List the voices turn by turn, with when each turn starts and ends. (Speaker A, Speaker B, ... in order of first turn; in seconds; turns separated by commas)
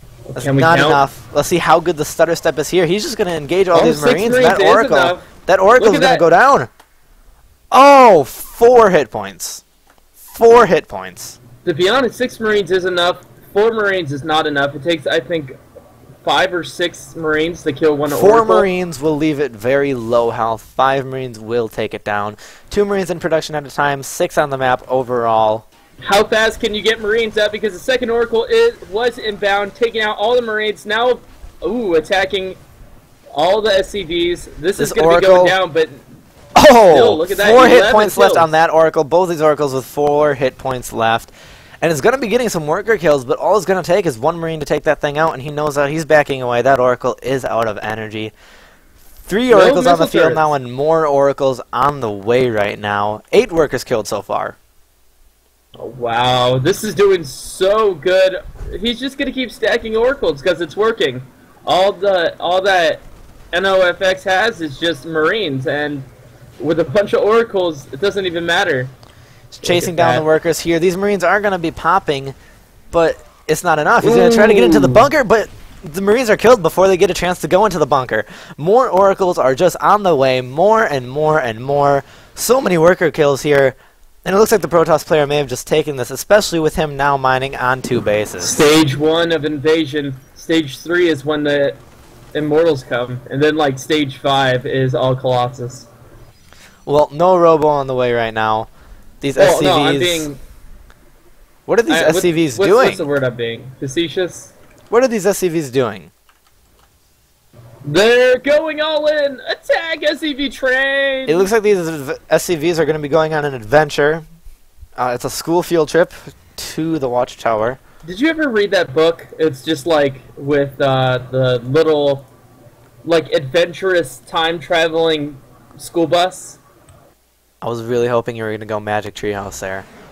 Speaker A: 0.3-1.0, Speaker B: 0.3-6.7, Speaker A: 3.7-6.2, Speaker B: 7.7-9.6, Speaker B: 10.2-11.4, Speaker A: 11.6-15.6, Speaker A: 16.2-18.7, Speaker B: 18.1-25.6, Speaker A: 26.0-32.6, Speaker A: 33.3-36.0, Speaker B: 34.8-35.5, Speaker B: 36.5-48.3, Speaker A: 36.9-38.5, Speaker B: 49.2-54.6, Speaker A: 49.5-50.5, Speaker A: 55.8-66.1, Speaker A: 66.6-68.9, Speaker B: 69.5-72.3, Speaker A: 69.6-70.3, Speaker B: 72.9-88.7, Speaker A: 74.0-75.1, Speaker A: 88.4-91.8, Speaker A: 92.3-95.9, Speaker B: 96.8-98.7, Speaker B: 99.2-100.3, Speaker A: 99.3-100.4, Speaker B: 101.7-103.0, Speaker A: 101.9-104.5, Speaker B: 104.9-106.1, Speaker A: 107.8-111.5, Speaker B: 111.3-114.2, Speaker B: 115.0-117.8, Speaker A: 118.0-122.3, Speaker A: 123.0-126.6, Speaker B: 127.6-129.8